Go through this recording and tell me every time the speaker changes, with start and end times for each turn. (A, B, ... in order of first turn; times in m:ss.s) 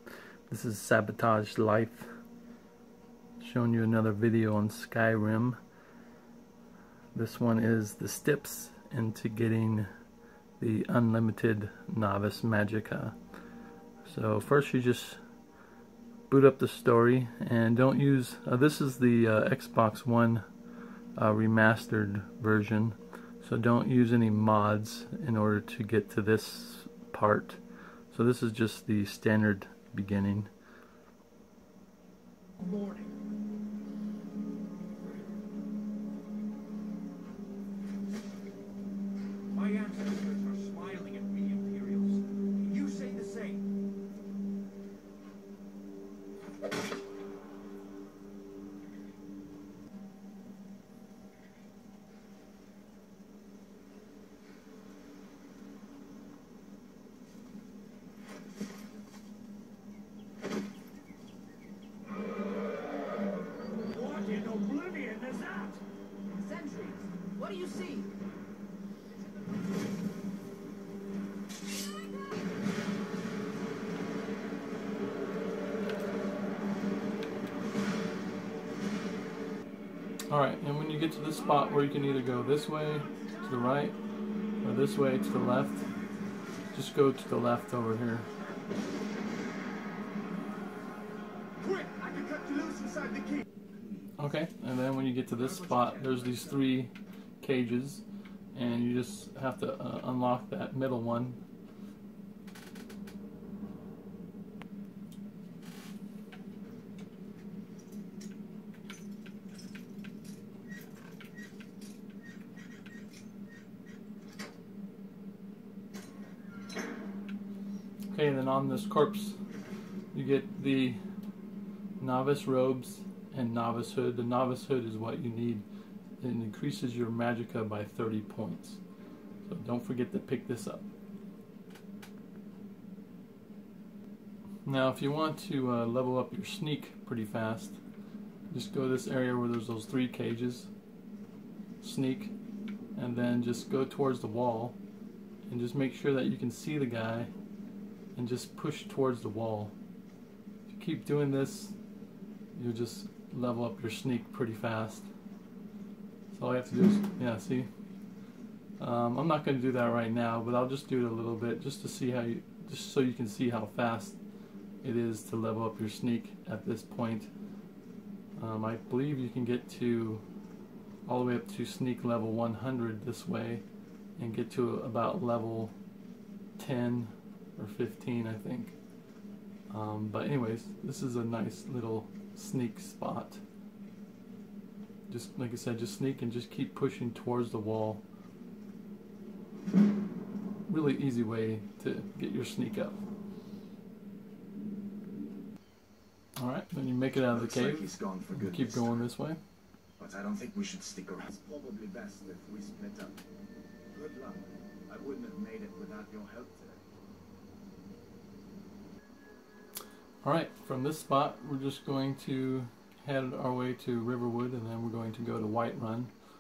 0:00.5-0:02.1 A
0:03.4-0:05.6 A
0:07.1-0:09.9 A
0:10.6-0:13.2 A
0:14.0-0:15.2 A
0:16.3-0:20.4 A
0:21.2-0:27.6 A
0:28.1-0:30.5 A
0:32.6-0:33.2 B
0:34.9-0:35.4 B
0:39.5-0:43.6 B
1:04.0-1:05.7 C
1:06.4-1:08.1 C
1:20.3-1:24.0 A
1:24.6-1:25.8 A
1:26.7-1:28.3 A
1:31.6-1:34.1 B
1:34.2-1:41.4 A
1:35.4-1:36.5 B
1:58.1-1:59.4 A
2:00.1-2:01.0 A
2:02.0-2:05.7 A
2:06.2-2:08.8 A
2:09.5-2:10.9 A
2:14.7-2:17.8 A
2:18.5-2:20.7 A
2:21.8-2:22.3 A
2:23.0-2:24.8 A
2:25.5-2:27.3 A
2:28.2-2:29.7 A
2:30.7-2:31.8 A
2:32.5-2:35.1 A
2:36.3-2:37.7 A
2:38.8-2:44.2 A
2:44.8-2:47.3 A
2:48.4-2:50.2 A
2:51.1-2:53.6 A
2:54.2-2:55.8 A
2:56.6-2:58.8 A
2:59.7-3:03.4 A
3:05.1-3:08.0 A
3:10.7-3:13.0 A
3:16.4-3:19.4 A
3:17.3-3:19.1 B
3:20.0-3:23.2 B
3:23.9-3:26.8 B
3:30.2-3:36.1 A